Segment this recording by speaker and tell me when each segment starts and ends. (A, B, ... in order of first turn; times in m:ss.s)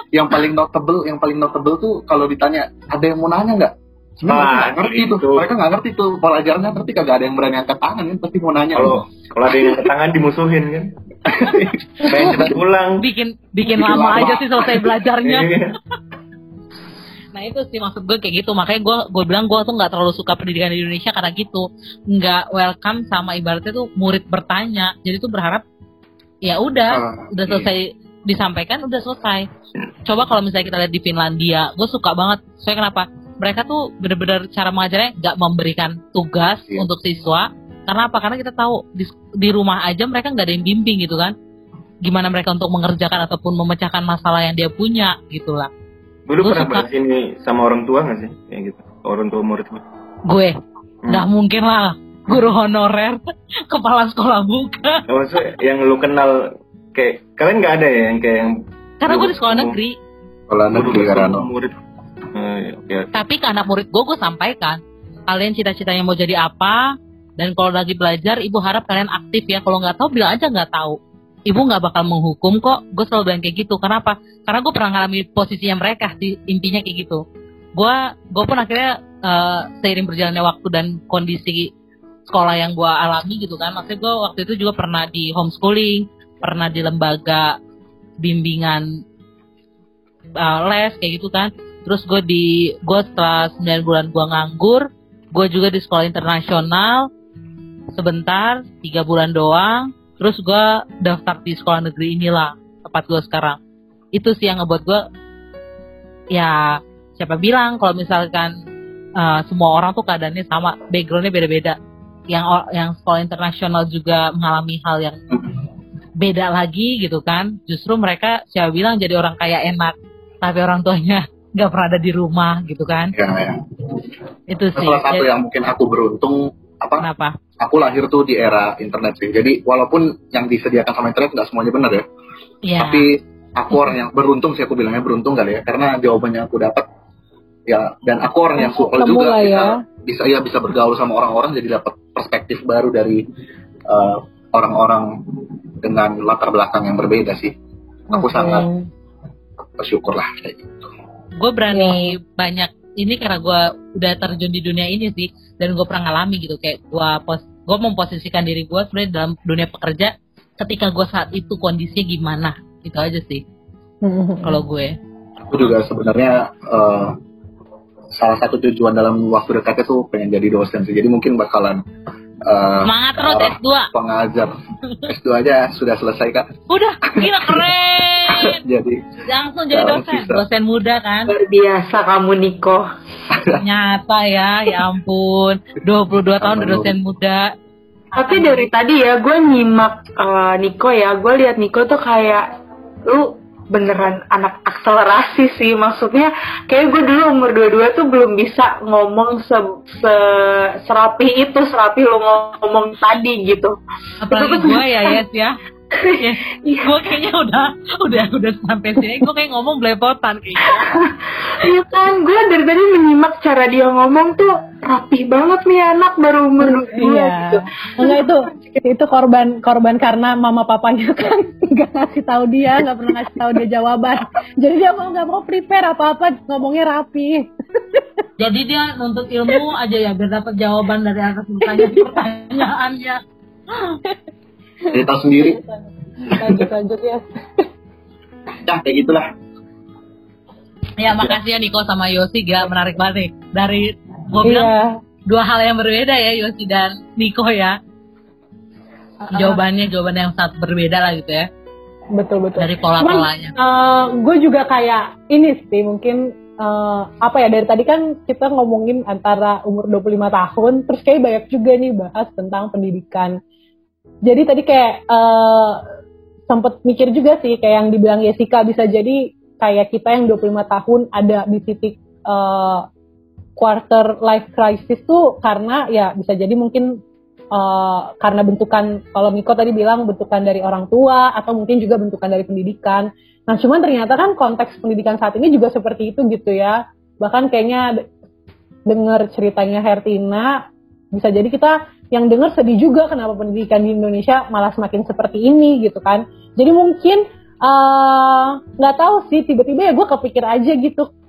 0:00.1-0:09.8 A
0:04.3-0:05.5 B
0:08.8-0:13.0 B
0:11.3-0:12.6 A
0:13.0-0:15.6 C
0:13.7-0:14.4 B
0:13.8-0:14.5 A
0:15.2-0:15.8 B
0:17.3-0:25.6 C
0:26.4-0:29.5 C
0:26.9-0:27.7 A
0:30.0-0:41.3 C
0:42.0-0:45.7 C
0:46.3-0:49.8 B
0:46.4-0:46.8 C
0:50.3-0:50.6 C
0:51.1-0:55.0 C
0:55.1-0:59.8 B
0:59.0-1:00.0 C
1:00.5-1:01.5 A
1:00.7-1:01.7 B
1:02.3-1:03.1 B
1:03.1-1:17.2 C
1:17.7-1:21.7 C
1:22.3-1:27.6 C
1:28.2-1:28.9 C
1:30.4-1:37.1 C
1:37.9-1:43.6 C
1:44.1-1:45.0 C
1:46.3-1:48.5 C
1:49.2-1:51.8 C
1:52.3-1:55.2 C
1:56.2-2:03.1 C
2:03.1-2:03.6 A
2:04.5-2:05.3 C
2:04.7-2:07.1 A
2:07.0-2:07.4 C
2:07.6-2:12.0 A
2:12.6-2:13.1 C
2:12.8-2:16.8 A
2:17.7-2:23.2 A
2:18.6-2:19.8 D
2:23.9-2:27.5 A
2:28.1-2:28.8 D
2:28.1-2:28.6 A
2:29.8-2:30.8 A
2:31.4-2:43.4 C
2:31.7-2:32.1 D
2:44.0-2:44.6 D
2:44.4-2:45.0 C
2:45.5-2:47.2 A
2:48.2-2:51.8 A
2:52.4-2:54.5 A
2:52.8-2:53.9 C
2:55.1-2:56.5 A
2:56.7-2:58.6 C
2:57.1-2:57.7 A
2:58.3-2:59.0 A
2:59.2-3:01.3 C
2:59.7-3:00.4 A
3:01.3-3:02.9 E
3:03.3-3:03.6 A
3:03.5-3:07.5 C
3:06.4-3:07.0 A
3:08.1-3:12.5 E
3:08.2-3:08.6 C
3:13.0-3:23.8 E
3:24.2-3:25.6 C
3:24.3-3:25.0 E
3:26.2-3:31.0 C
3:31.0-3:38.1 E
3:36.6-3:48.0 D
3:48.4-3:53.2 C
3:51.6-3:52.0 D
3:54.9-3:55.6 A
3:56.3-3:57.6 D
3:56.3-3:56.6 A
3:58.6-3:59.3 A
4:01.0-4:04.7 C
4:04.4-4:04.9 D
4:05.3-4:07.8 C
4:09.2-4:09.6 D
4:09.3-4:11.5 C
4:12.1-4:23.4 D
4:12.6-4:13.5 C
4:24.2-4:25.8 D
4:26.5-4:32.8 D
4:33.6-4:37.0 D
4:37.5-4:47.8 D
4:48.9-4:50.6 D
4:51.1-5:01.1 D